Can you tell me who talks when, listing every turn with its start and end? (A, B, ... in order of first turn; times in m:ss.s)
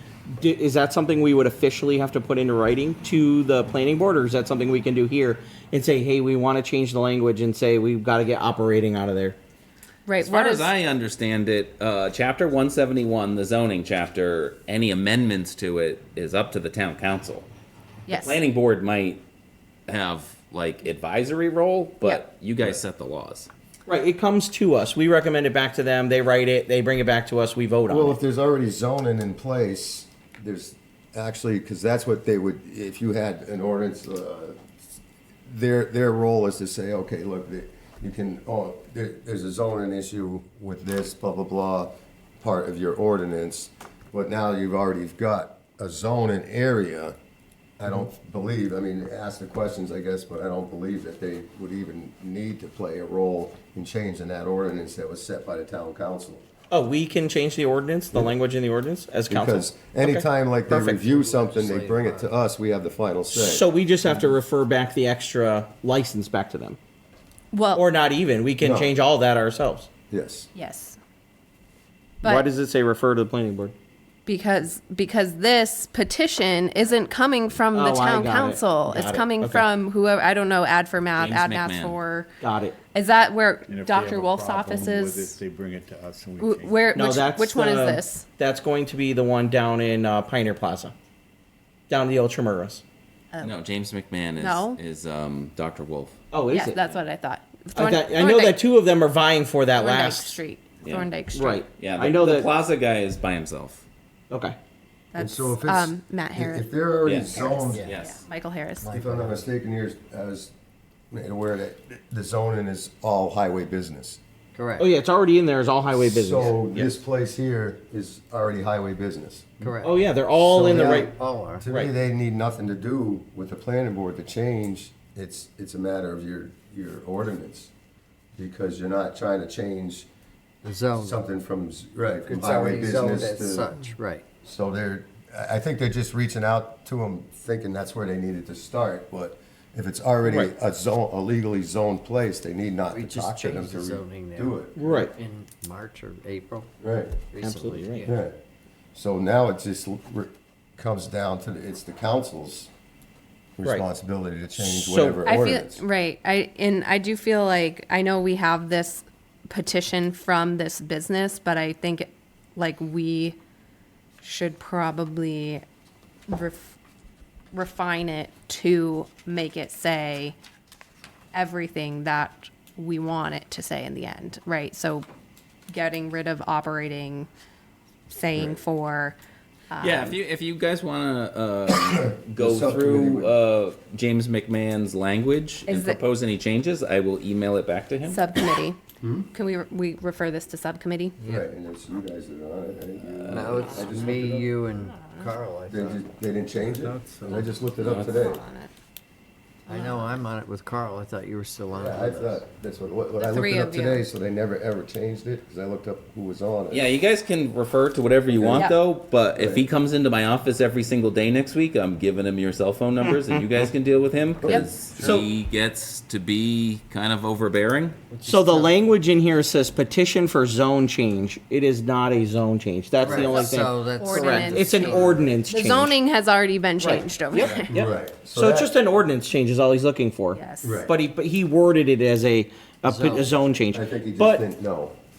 0:00.4-0:09.4 A
0:10.1-0:10.7 B
0:10.1-0:17.5 C
0:18.1-0:19.2 C
0:18.1-0:18.4 B
0:19.9-0:23.5 C
0:23.9-0:28.2 A
0:27.9-0:34.6 D
0:35.5-0:47.2 D
0:47.8-0:56.4 D
0:56.7-1:01.0 A
0:59.3-1:04.2 D
1:01.0-1:02.3 E
1:03.3-1:06.8 A
1:07.5-1:07.8 B
1:07.7-1:09.9 A
1:08.6-1:08.9 D
1:10.1-1:10.5 D
1:10.6-1:11.0 B
1:12.2-1:13.7 A
1:14.3-1:22.3 B
1:17.7-1:19.7 A
1:21.1-1:22.0 C
1:22.4-1:22.8 A
1:22.9-1:25.4 B
1:23.7-1:26.9 F
1:26.4-1:28.2 B
1:26.9-1:30.9 A
1:31.9-1:32.8 A
1:33.4-1:36.2 C
1:34.4-1:34.8 B
1:36.3-1:36.8 A
1:36.5-1:38.6 B
1:36.8-1:37.1 C
1:37.8-1:40.4 A
1:39.8-1:41.6 B
1:40.8-1:43.8 C
1:41.3-1:42.5 A
1:44.3-1:44.6 A
1:45.1-1:46.7 B
1:45.2-1:47.9 D
1:47.0-1:48.3 C
1:47.2-1:48.1 E
1:48.1-1:48.9 B
1:48.8-1:49.5 E
1:48.9-1:50.5 D
1:51.1-1:54.2 D
1:54.5-1:54.9 E
1:54.8-1:56.6 A
1:55.9-1:59.6 D
1:59.6-2:00.0 E
1:59.8-2:01.1 A
2:00.4-2:07.7 D
2:00.8-2:01.6 E
2:08.4-2:10.1 D
2:10.6-2:11.2 E
2:11.0-2:13.7 D
2:12.2-2:14.3 E
2:14.4-2:25.0 D
2:20.2-2:20.5 A
2:22.9-2:26.8 E
2:24.8-2:25.1 A
2:26.8-2:27.2 D
2:27.3-2:28.2 E
2:27.4-2:28.1 A
2:28.0-2:28.4 D
2:28.9-2:32.7 D
2:33.6-2:35.8 D
2:34.6-2:35.3 A
2:35.3-2:35.6 C
2:35.5-2:43.4 B
2:44.2-2:45.6 B
2:46.3-2:46.8 B
2:47.5-2:50.4 B
2:51.3-2:55.1 B
2:55.7-2:57.3 B
2:58.1-2:59.2 B
2:59.7-3:00.1 B
2:59.8-3:08.4 C
3:01.7-3:03.4 D
3:05.7-3:06.0 B
3:08.1-3:08.8 B
3:09.0-3:09.3 D
3:09.3-3:11.2 B
3:11.2-3:14.5 D
3:13.0-3:14.2 C
3:13.3-3:16.0 E
3:14.9-3:15.3 B
3:15.7-3:18.4 D
3:16.8-3:17.5 E
3:17.8-3:18.4 C
3:18.0-3:18.7 B
3:19.7-3:22.4 E
3:19.7-3:20.2 B
3:21.7-3:26.9 D
3:23.2-3:24.0 B
3:26.7-3:38.0 C
3:28.3-3:28.7 D
3:29.4-3:29.6 D
3:35.0-3:35.2 D
3:35.0-3:35.3 A
3:38.1-3:38.8 E
3:38.2-3:46.0 A
3:43.0-3:45.3 E
3:44.0-3:47.6 B
3:46.8-3:54.4 A
3:47.4-3:48.7 D
3:50.4-3:50.8 B
3:50.6-3:50.9 D
3:52.8-3:53.4 E
3:53.7-3:55.0 D